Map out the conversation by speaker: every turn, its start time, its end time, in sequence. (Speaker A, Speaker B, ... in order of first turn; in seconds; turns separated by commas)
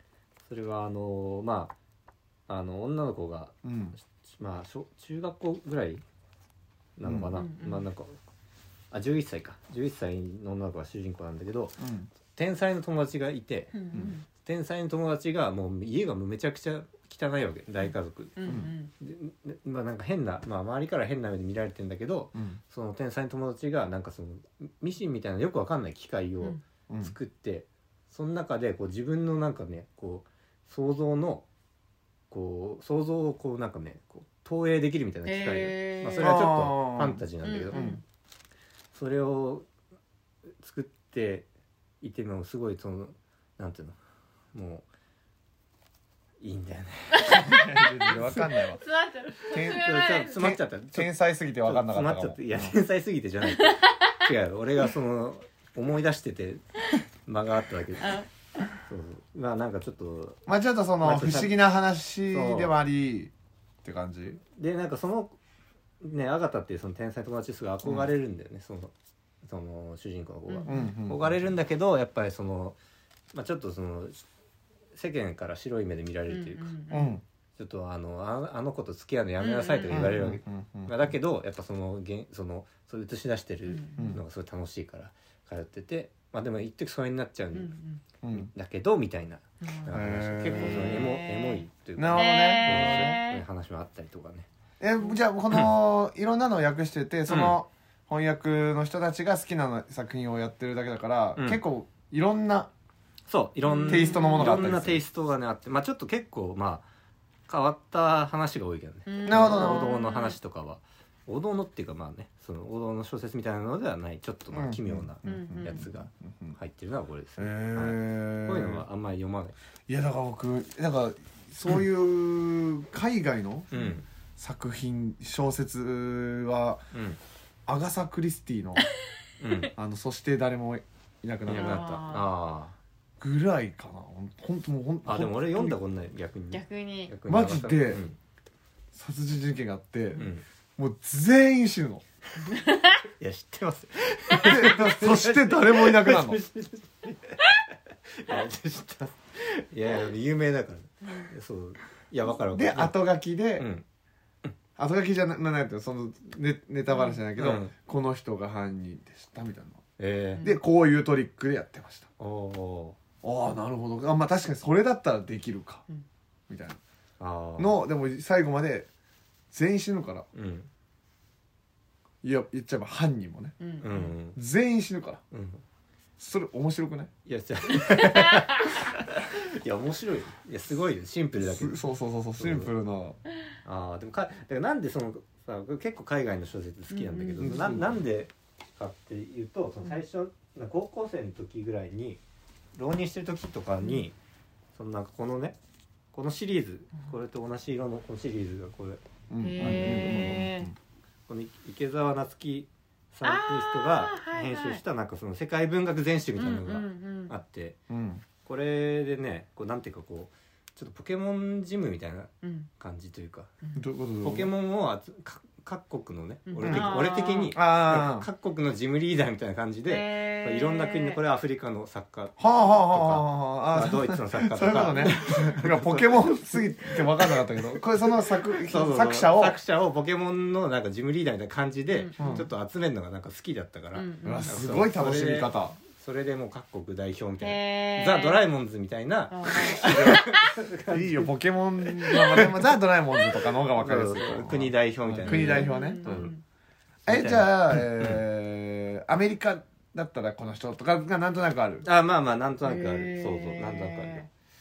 Speaker A: 0.5-1.7, Speaker A: 2.5-3.5, Speaker B: 3.6-4.0, Speaker A: 4.2-6.0, Speaker A: 7.0-8.2, Speaker B: 7.0-7.3, Speaker C: 7.3-7.9, Speaker A: 8.9-11.8, Speaker B: 11.8-12.1, Speaker A: 12.3-13.8, Speaker C: 13.7-14.3, Speaker A: 14.3-31.5, Speaker C: 18.4-18.9, Speaker B: 18.5-18.7, Speaker B: 22.4-22.6, Speaker B: 26.9-27.1, Speaker A: 32.3-37.9, Speaker C: 35.3-36.4, Speaker B: 36.2-38.0, Speaker C: 37.4-38.0, Speaker A: 38.9-39.7, Speaker A: 40.6-41.5, Speaker A: 42.0-44.0, Speaker A: 44.5-44.9, Speaker A: 46.4-47.4, Speaker C: 47.1-50.5, Speaker B: 47.3-48.8, Speaker A: 48.1-48.4, Speaker B: 49.5-52.8, Speaker A: 49.5-56.6, Speaker C: 53.5-54.0, Speaker A: 57.2-58.2, Speaker C: 58.0-58.3, Speaker A: 58.8-60.5, Speaker B: 60.5-63.3, Speaker A: 61.0-61.6, Speaker A: 62.3-62.7, Speaker B: 63.8-64.4, Speaker A: 64.5-65.4, Speaker A: 66.0-68.9, Speaker B: 67.8-68.1, Speaker A: 69.5-72.8, Speaker C: 70.5-70.9, Speaker B: 70.7-71.4, Speaker A: 73.3-74.2, Speaker A: 74.9-76.8, Speaker C: 76.3-77.1, Speaker B: 76.9-77.2, Speaker A: 77.6-87.8, Speaker C: 79.4-80.2, Speaker B: 79.9-81.1, Speaker C: 83.7-84.1, Speaker B: 84.0-84.2, Speaker C: 87.5-88.0, Speaker B: 88.2-88.5, Speaker A: 88.3-94.5, Speaker C: 89.6-93.4, Speaker B: 89.9-91.2, Speaker B: 92.0-93.2, Speaker B: 94.8-102.7, Speaker A: 97.3-97.6, Speaker A: 101.4-101.6, Speaker A: 103.3-106.9, Speaker C: 103.7-104.8, Speaker B: 103.9-105.0, Speaker A: 107.5-119.5, Speaker C: 109.1-110.4, Speaker B: 109.2-109.9, Speaker B: 114.5-116.6, Speaker C: 115.2-115.8, Speaker B: 117.4-118.8, Speaker B: 119.9-123.8, Speaker A: 123.7-124.1, Speaker B: 124.4-126.8, Speaker A: 126.9-127.2, Speaker B: 127.7-128.9, Speaker A: 129.4-129.7, Speaker B: 129.8-132.0, Speaker C: 131.5-132.3, Speaker A: 131.5-132.8, Speaker B: 133.2-135.8, Speaker A: 135.1-138.2, Speaker C: 136.5-137.1, Speaker B: 137.3-138.0, Speaker B: 138.9-140.2, Speaker A: 140.2-140.4, Speaker B: 140.8-142.0, Speaker C: 142.4-143.0, Speaker A: 143.2-153.0, Speaker B: 144.4-146.4, Speaker C: 151.0-151.3, Speaker B: 152.5-153.7, Speaker A: 153.6-153.8, Speaker B: 154.8-159.8, Speaker C: 156.9-157.2, Speaker A: 157.4-157.7, Speaker A: 160.0-160.4, Speaker B: 160.4-162.1, Speaker A: 162.2-163.0, Speaker B: 163.2-165.8, Speaker B: 166.5-166.8, Speaker A: 167.2-167.8, Speaker B: 167.6-168.9, Speaker B: 169.5-170.3, Speaker A: 170.3-170.7, Speaker B: 172.2-173.6, Speaker C: 173.6-174.1, Speaker A: 173.8-174.4, Speaker B: 174.3-175.2, Speaker A: 175.3-175.6, Speaker B: 176.2-177.1, Speaker A: 177.2-181.8, Speaker B: 177.8-178.4, Speaker B: 181.4-183.2, Speaker A: 182.4-182.7, Speaker A: 183.7-192.2, Speaker C: 186.9-187.7, Speaker B: 187.4-188.0, Speaker A: 192.8-194.2, Speaker A: 194.8-195.6, Speaker A: 196.1-199.0, Speaker B: 199.3-200.8, Speaker C: 199.4-200.7, Speaker A: 199.6-200.4, Speaker A: 201.3-207.8, Speaker C: 203.2-204.8, Speaker C: 206.4-207.3, Speaker B: 207.9-208.2, Speaker A: 208.4-213.5, Speaker C: 212.4-212.7, Speaker B: 213.8-214.5, Speaker A: 214.2-241.3, Speaker C: 216.5-217.6, Speaker B: 216.6-218.3, Speaker C: 219.9-221.2, Speaker B: 222.4-229.6, Speaker C: 224.9-225.2, Speaker C: 231.9-232.4, Speaker B: 232.2-232.5, Speaker C: 233.9-234.6, Speaker B: 234.2-235.8, Speaker C: 237.4-238.4, Speaker C: 239.3-240.4, Speaker B: 239.7-240.2, Speaker B: 240.9-246.1, Speaker A: 242.0-242.5, Speaker C: 242.1-242.5, Speaker A: 243.7-246.3, Speaker C: 245.2-246.4, Speaker B: 247.1-251.8, Speaker A: 247.1-248.2, Speaker A: 251.8-254.3, Speaker C: 252.6-254.3